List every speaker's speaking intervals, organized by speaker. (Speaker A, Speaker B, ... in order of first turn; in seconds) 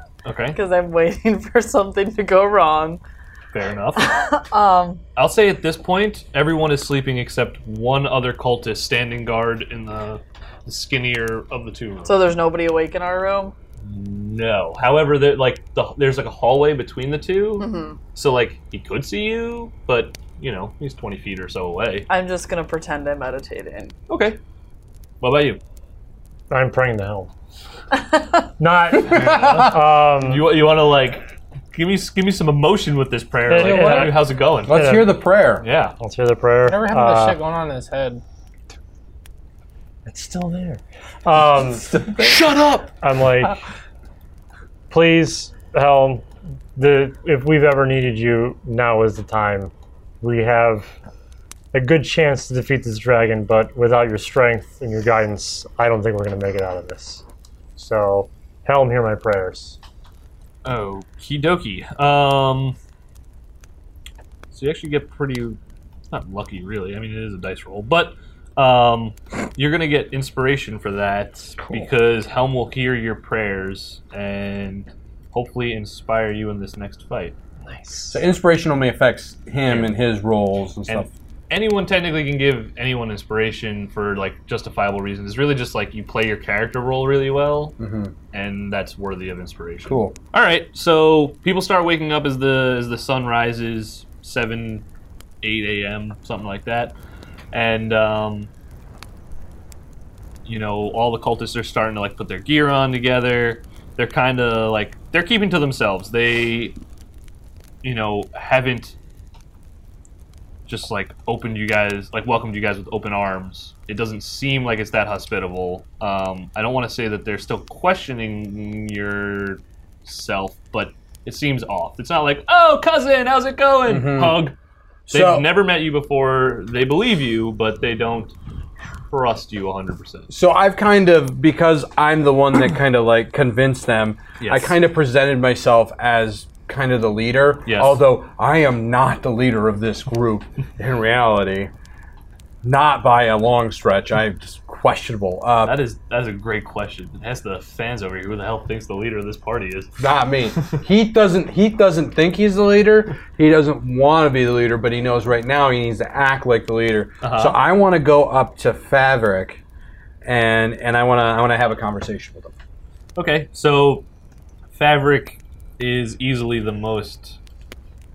Speaker A: 0.2-0.6, 3.5-4.2, 5.2-12.3, 13.8-22.1, 24.1-24.4, 25.2-25.6, 29.1-34.8, 35.6-36.0, 42.0-42.9, 60.6-62.8, 64.5-65.6, 66.1-77.3, 79.7-79.9, 80.9-87.7, 88.3-94.8, 95.4-96.9, 97.5-98.5, 100.4-106.8, 107.8-109.0, 110.7-124.5, 125.1-128.3, 129.1-130.3, 134.4-134.8, 137.7-138.0, 145.6-149.9, 157.2-157.6, 163.2-164.0, 164.7-167.4
Speaker B: 0.5-3.0, 4.0-5.0, 12.0-13.5, 17.6-18.0, 22.1-23.9
Speaker C: 26.5-27.3, 28.6-30.5, 33.5-35.2, 36.0-37.4, 40.0-42.0, 43.0-43.6, 44.9-50.9, 51.7-57.2, 57.8-59.8
Speaker D: 29.1-29.8, 34.7-35.6, 42.0-42.4, 78.1-81.1, 87.8-88.1, 89.8-90.1, 123.9-124.4, 125.1-125.5, 130.3-141.7, 142.6-145.8, 150.0-159.6, 160.2-162.5
Speaker E: 33.5-34.2, 36.6-38.2, 77.7-78.1